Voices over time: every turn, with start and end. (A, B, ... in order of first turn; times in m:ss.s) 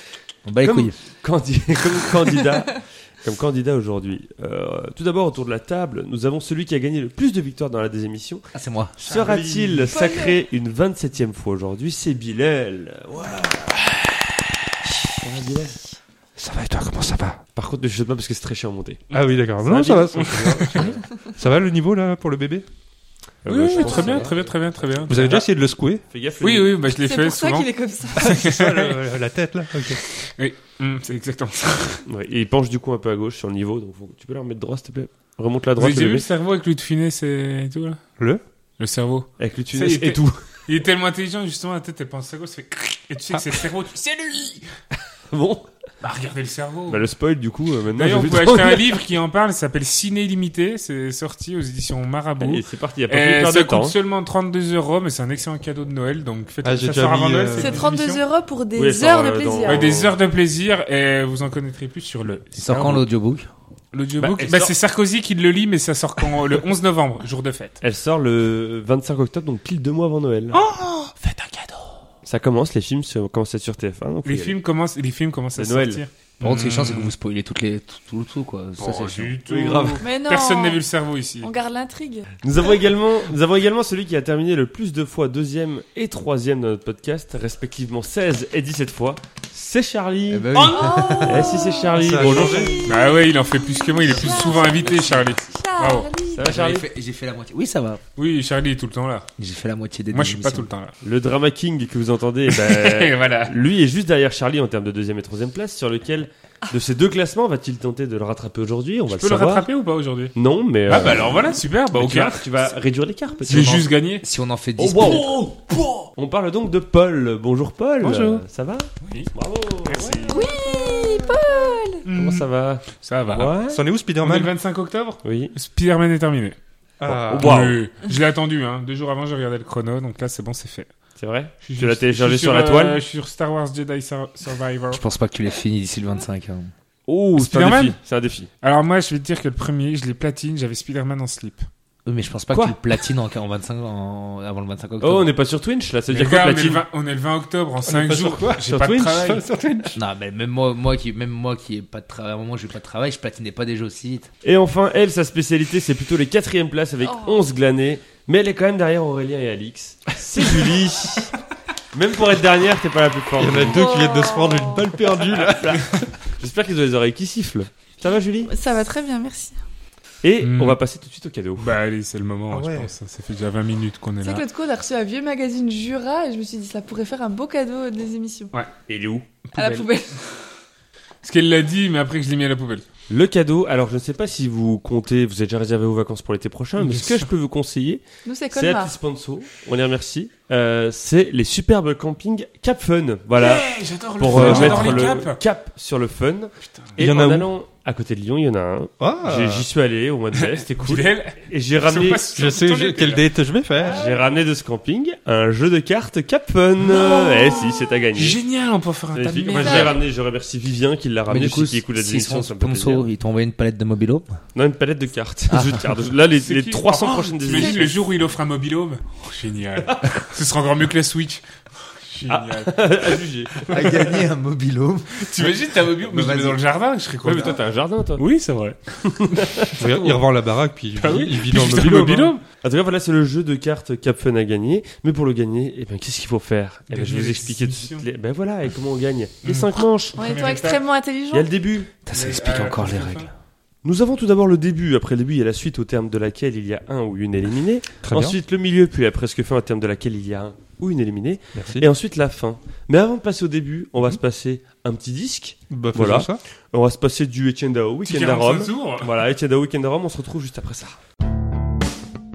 0:00.5-0:01.0 A
0:00.6-0:08.4 B
0:08.5-0:09.0 A
0:09.0-0:14.1 B
0:09.1-0:09.9 C
0:09.9-0:10.4 D
0:14.8-0:16.0 B
0:16.4-0:17.4 C
0:17.6-0:19.0 B
0:19.1-0:22.6 C
0:19.6-0:21.1 B
0:23.4-0:24.5 B
0:23.5-0:25.2 E
0:23.7-0:24.3 D
0:25.1-0:25.5 B
0:25.1-0:26.0 C
0:26.1-0:26.8 B
0:26.4-0:29.0 E
0:26.9-0:28.3 D
0:28.1-0:30.0 C
0:29.9-0:32.0 E
0:32.1-0:36.3 B
0:35.8-0:38.0 E
0:38.8-0:44.7 E
0:39.4-0:40.4 B
0:45.3-0:45.7 B
0:46.0-0:47.1 E
0:46.9-0:49.0 B
0:48.0-0:58.2 E
0:52.4-0:54.0 B
0:56.6-0:57.8 C
0:57.6-0:59.9 D
0:58.8-1:00.2 B
0:59.6-1:03.0 E
1:02.6-1:03.5 A
1:03.9-1:07.8 E
1:04.2-1:04.7 B
1:07.8-1:10.6 B
1:10.5-1:11.9 E
1:12.2-1:14.6 B
1:14.2-1:17.2 E
1:15.6-1:16.0 B
1:16.4-1:19.4 A
1:18.8-1:21.5 E
1:19.5-1:20.0 C
1:20.0-1:20.8 D
1:21.4-1:22.3 D
1:22.4-1:30.5 B
1:30.3-1:31.7 A
1:30.5-1:31.5 E
1:30.7-1:36.5 D
1:31.3-1:32.9 B
1:32.0-1:32.9 C
1:32.8-1:36.1 E
1:34.3-1:35.2 A
1:36.3-1:36.9 B
1:36.4-1:38.0 A
1:38.2-1:39.3 E
1:39.4-1:40.7 A
1:40.1-1:40.9 E
1:41.0-1:49.7 B
1:42.5-1:43.5 E
1:49.1-1:50.4 E
1:50.4-1:53.9 B
1:50.9-1:52.5 E
1:53.5-1:54.2 E
1:54.2-1:55.3 A
1:54.8-2:00.5 B
1:55.1-1:56.1 E
1:58.0-1:58.4 C
1:59.0-1:59.3 E
1:59.8-2:00.5 E
2:00.3-2:02.0 D
2:02.0-2:03.6 E
2:02.1-2:03.8 B
2:03.7-2:04.5 C
2:04.2-2:06.6 E
2:05.2-2:05.5 B
2:07.0-2:07.6 C
2:07.1-2:07.8 B
2:07.4-2:10.9 E
2:11.2-2:13.0 B
2:11.6-2:15.0 E
2:14.9-2:16.7 A
2:17.1-2:18.5 B
2:17.4-2:18.0 E
2:18.6-2:21.7 E
2:22.1-2:25.3 A
2:22.5-2:22.8 B
2:25.0-2:26.8 B
2:26.1-2:29.4 E
2:27.8-2:30.0 C
2:28.6-2:29.4 B
2:30.0-2:34.3 A
2:34.4-2:41.3 B
2:37.0-2:37.4 D
2:41.9-2:43.9 B
2:43.4-2:45.8 C
2:43.7-2:44.9 D
2:45.1-2:48.5 B
2:48.5-2:49.6 D
2:50.2-2:51.7 B
2:50.4-2:50.8 E
2:51.6-2:54.4 E
2:52.5-2:52.9 C
2:54.2-2:58.5 D
2:58.9-2:59.3 B
2:59.5-2:59.9 E
2:59.6-3:00.2 D
3:01.2-3:02.8 E
3:03.1-3:22.2 B
3:06.8-3:07.2 C
3:08.2-3:08.9 D
3:13.4-3:15.4 E
3:14.3-3:15.2 C
3:16.6-3:17.0 E
3:17.0-3:17.5 C
3:19.0-3:19.7 C
3:20.3-3:23.3 E
3:22.4-3:24.0 C
3:23.8-3:24.3 E
3:23.8-3:28.4 B
3:26.9-3:27.8 D
3:28.1-3:30.0 E
3:29.1-3:33.1 B
3:29.4-3:30.0 D
3:31.3-3:34.4 A
3:34.6-3:38.0 B
3:35.5-3:35.8 A
3:36.4-3:42.8 E
3:37.5-3:37.8 D
3:42.3-3:44.2 B
3:43.7-3:45.5 A
3:45.2-3:47.6 E
3:46.1-3:46.6 A
3:47.2-3:48.2 B
3:48.2-3:50.2 E
3:49.1-3:49.9 B
3:49.8-3:52.4 C
3:51.0-3:52.4 E
3:52.6-4:00.2 B
3:56.9-3:58.1 E
3:59.4-4:00.8 E
4:00.2-4:01.5 D
4:01.3-4:01.9 B
4:02.0-4:03.3 A
4:02.1-4:03.3 E
4:03.8-4:21.0 B
4:08.0-4:08.4 C
4:11.6-4:11.9 C
4:15.7-4:16.4 C
4:18.0-4:19.1 E